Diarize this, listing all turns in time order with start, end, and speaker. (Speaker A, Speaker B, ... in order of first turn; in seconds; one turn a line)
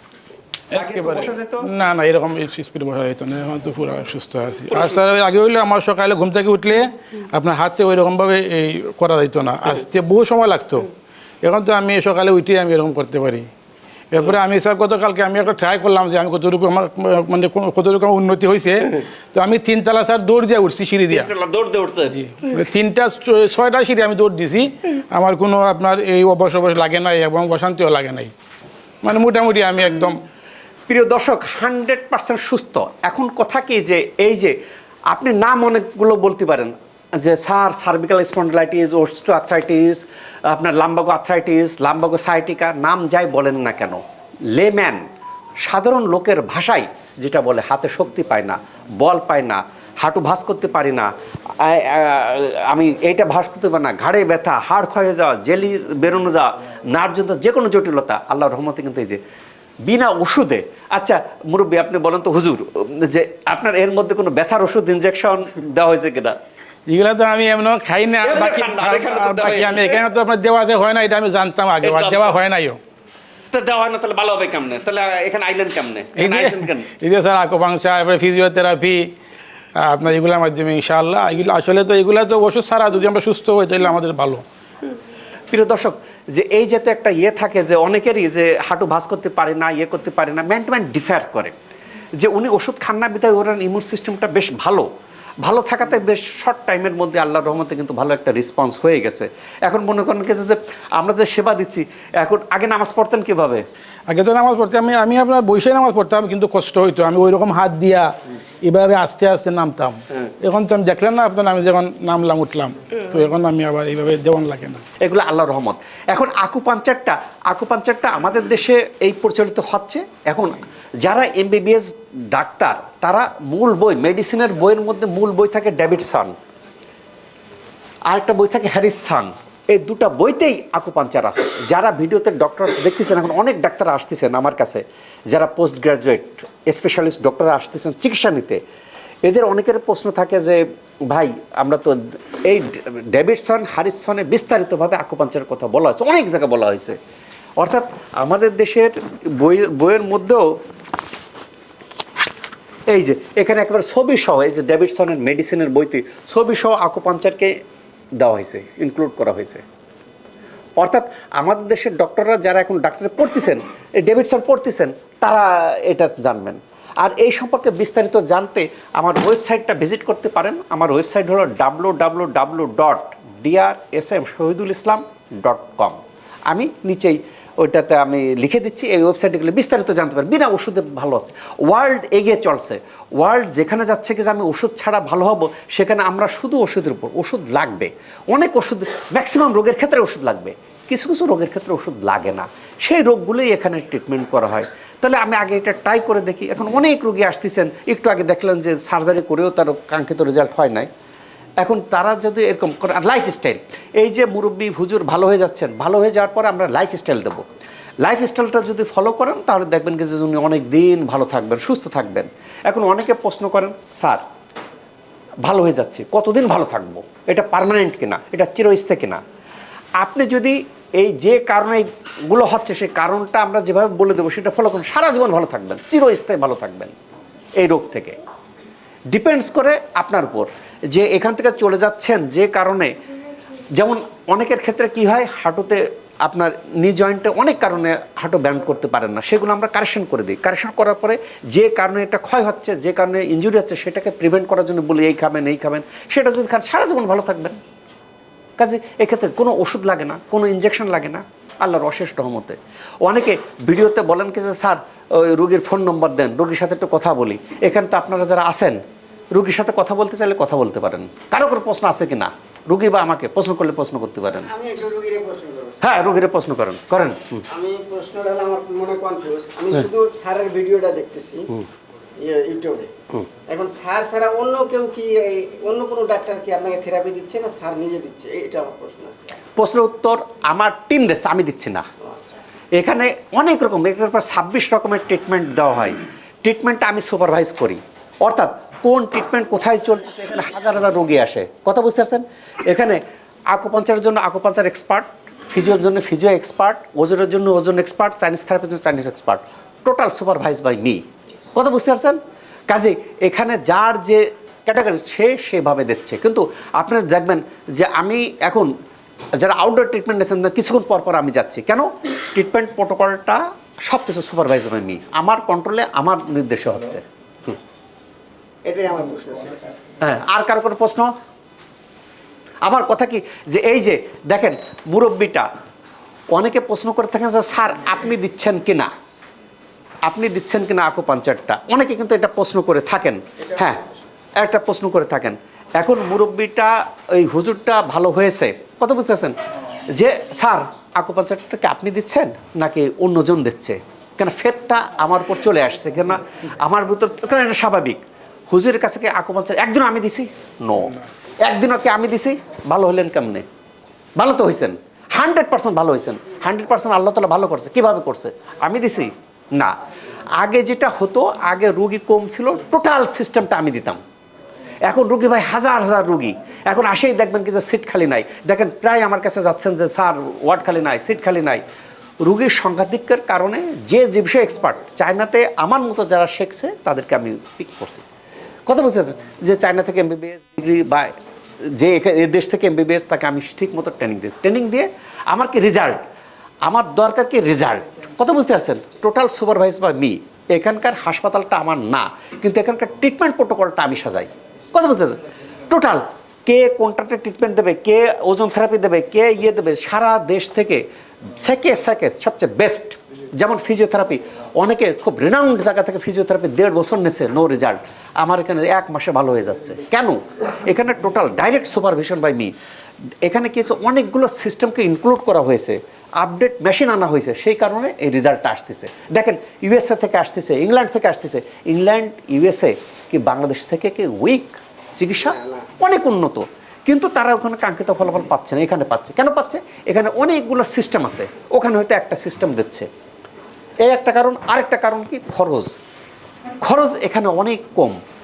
Speaker A: 0.7-1.7
Speaker B: 0.7-10.9
Speaker B: 11.4-13.5
Speaker B: 14.1-21.3
Speaker A: 21.1-22.6
Speaker B: 22.1-28.3
Speaker B: 29.0-30.2
Speaker A: 30.9-34.6
Speaker A: 35.1-45.0
Speaker A: 45.6-59.2
Speaker A: 59.9-66.4
Speaker B: 66.9-72.8
Speaker A: 68.2-70.0
Speaker A: 71.8-72.4
Speaker A: 73.5-76.9
Speaker B: 76.2-79.1
Speaker B: 79.8-84.4
Speaker A: 85.5-91.5
Speaker A: 92.2-94.9
Speaker A: 95.4-103.6
Speaker B: 104.1-108.1
Speaker B: 108.7-114.8
Speaker A: 115.0-126.3
Speaker A: 128.1-138.6
Speaker A: 139.2-147.0
Speaker A: 147.6-150.4
Speaker A: 152.9-157.5
Speaker A: 158.2-159.6
Speaker A: 160.8-176.0
Speaker A: 176.5-200.9
Speaker A: 201.6-207.4
Speaker A: 208.0-214.2
Speaker A: 215.4-219.2
Speaker A: 220.0-226.9
Speaker A: 227.6-228.2
Speaker A: 229.1-232.9
Speaker A: 233.8-247.6
Speaker A: 248.6-258.8
Speaker A: 259.3-264.5
Speaker C: 264.5-265.8
Speaker A: 265.8-267.4
Speaker C: 267.5-271.6
Speaker C: 272.2-272.9
Speaker C: 273.5-279.1
Speaker A: 279.6-281.8
Speaker A: 282.8-301.0
Speaker A: 301.5-308.7
Speaker A: 309.4-317.0
Speaker C: 318.6-319.8
Speaker A: 320.0-321.1
Speaker A: 322.6-325.5
Speaker A: 326.3-328.9
Speaker A: 330.0-333.8
Speaker C: 333.4-333.8
Speaker A: 334.4-339.4
Speaker A: 339.9-353.5
Speaker A: 354.2-359.7
Speaker A: 360.4-364.0
Speaker A: 364.9-371.6
Speaker A: 372.2-378.0
Speaker A: 378.7-381.1
Speaker A: 381.8-386.0
Speaker A: 386.7-400.8
Speaker A: 401.4-412.5
Speaker A: 413.2-432.9
Speaker C: 425.4-425.7
Speaker A: 433.9-435.8
Speaker A: 436.6-438.0